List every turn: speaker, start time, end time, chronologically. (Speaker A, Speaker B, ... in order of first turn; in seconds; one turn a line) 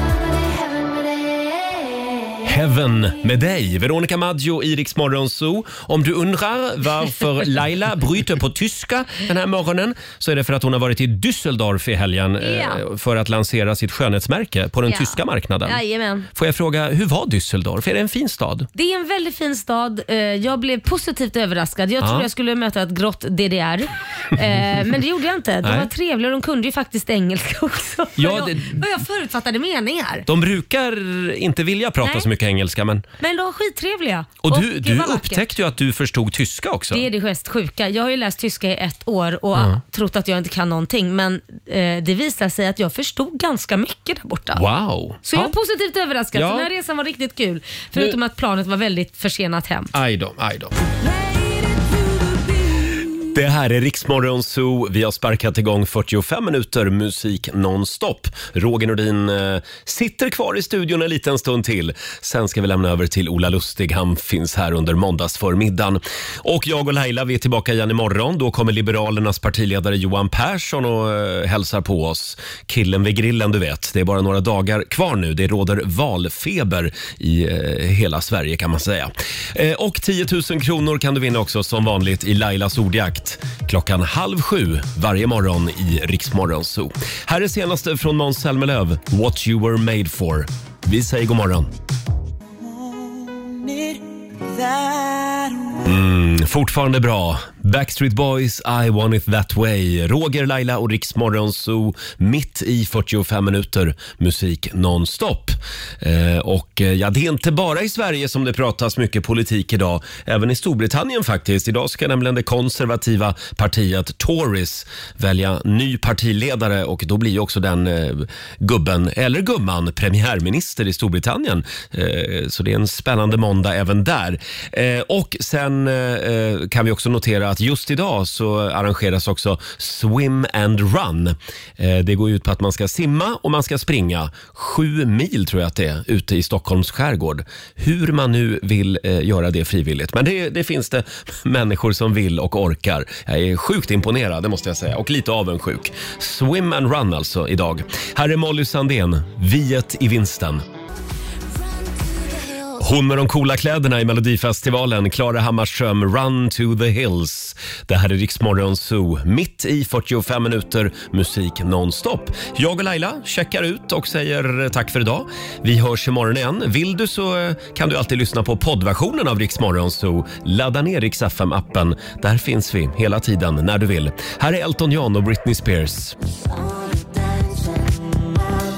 Speaker A: 2.4-15.8
Speaker B: 12.4-12.8
Speaker B: 14.9-16.3
Speaker A: 16.3-18.7
Speaker B: 18.8-30.3
Speaker A: 22.0-22.3
Speaker A: 25.6-25.9
Speaker A: 28.2-28.9
Speaker A: 30.3-33.0
Speaker B: 32.0-32.3
Speaker B: 33.2-35.4
Speaker A: 34.4-37.1
Speaker B: 36.9-44.6
Speaker A: 44.5-45.5
Speaker B: 45.2-49.9
Speaker A: 46.3-46.7
Speaker A: 49.9-50.8
Speaker A: 53.2-91.7
Speaker A: 95.8-150.6
Speaker A: 152.8-176.2